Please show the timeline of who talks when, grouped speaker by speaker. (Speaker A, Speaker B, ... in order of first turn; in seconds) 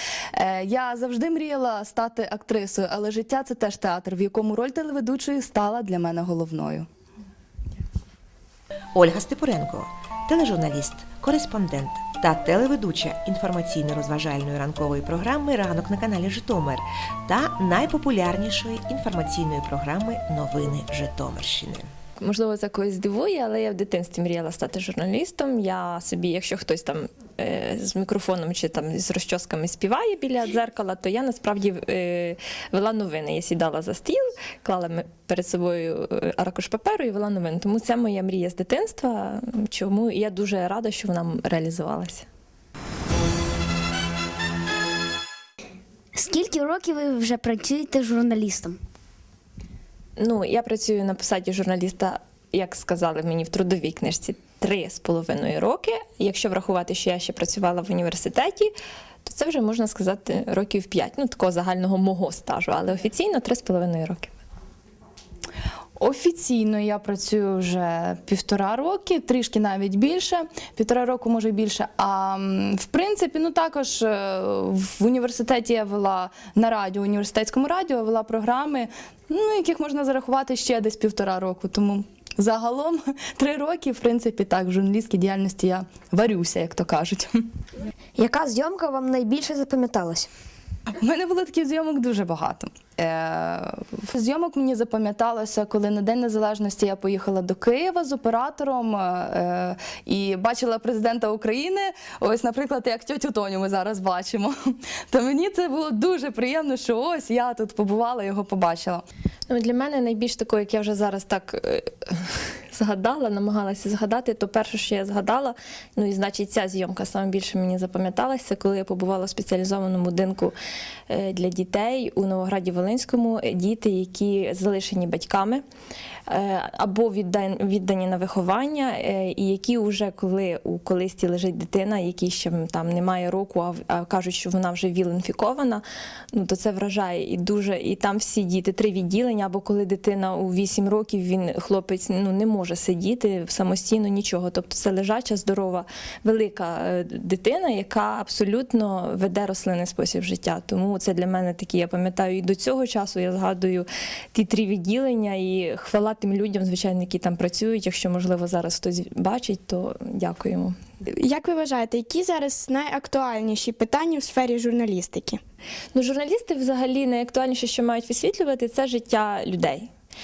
Speaker A: 0.3-6.9, 66.0-87.5, 91.0-109.0
Speaker B: 8.9-21.9
Speaker C: 22.2-42.3, 50.2-58.7, 59.2-64.3, 109.5-120.5, 121.1-125.6, 126.3-160.8, 165.9-169.9
Speaker D: 46.1-48.8
Speaker E: 88.2-90.3
Speaker F: 161.1-165.4